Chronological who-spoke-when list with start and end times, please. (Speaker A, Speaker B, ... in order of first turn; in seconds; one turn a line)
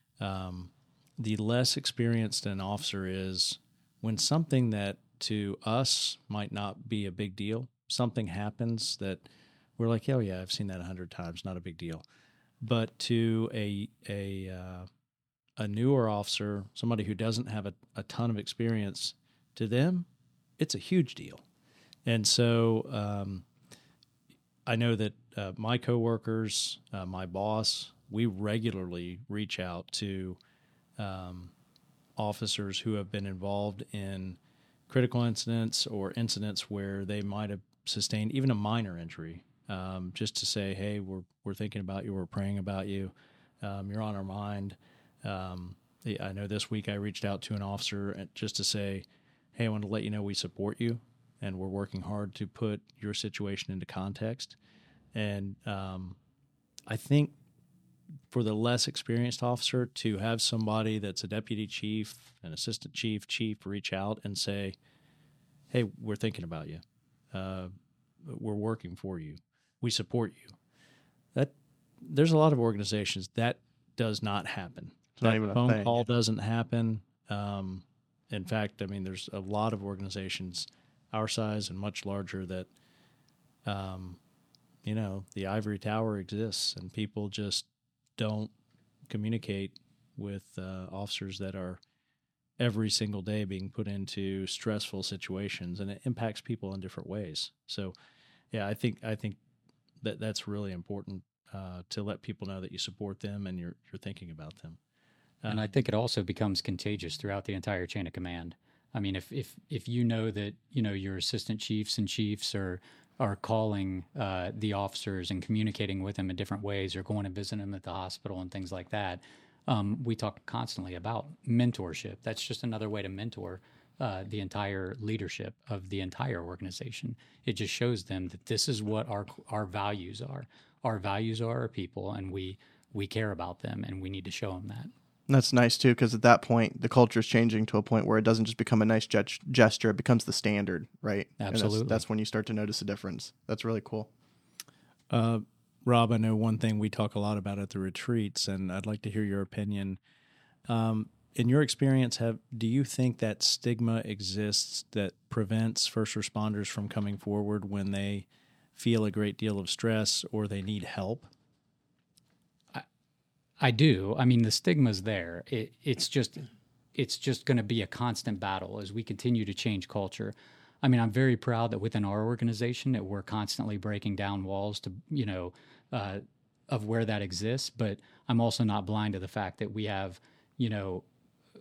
Speaker A: 0.2-9.2
Speaker A: 9.8-12.0
Speaker A: 12.6-14.9
Speaker A: 15.6-20.1
Speaker A: 20.6-21.4
Speaker A: 22.0-23.4
Speaker A: 24.6-30.4
Speaker A: 31.0-31.5
Speaker A: 32.1-54.6
Speaker A: 55.1-56.2
Speaker A: 56.9-57.3
Speaker A: 58.3-64.8
Speaker A: 65.7-67.7
Speaker A: 68.2-70.5
Speaker A: 71.3-82.7
Speaker B: 75.2-76.0
Speaker A: 83.6-84.2
Speaker A: 84.8-88.5
Speaker A: 89.1-91.8
Speaker A: 92.6-97.9
Speaker A: 98.5-99.4
Speaker A: 100.0-104.8
Speaker A: 105.4-105.7
Speaker C: 105.5-134.9
Speaker B: 135.3-144.1
Speaker C: 141.4-142.0
Speaker A: 145.1-150.0
Speaker A: 150.7-161.3
Speaker C: 163.6-166.4
Speaker C: 166.9-181.0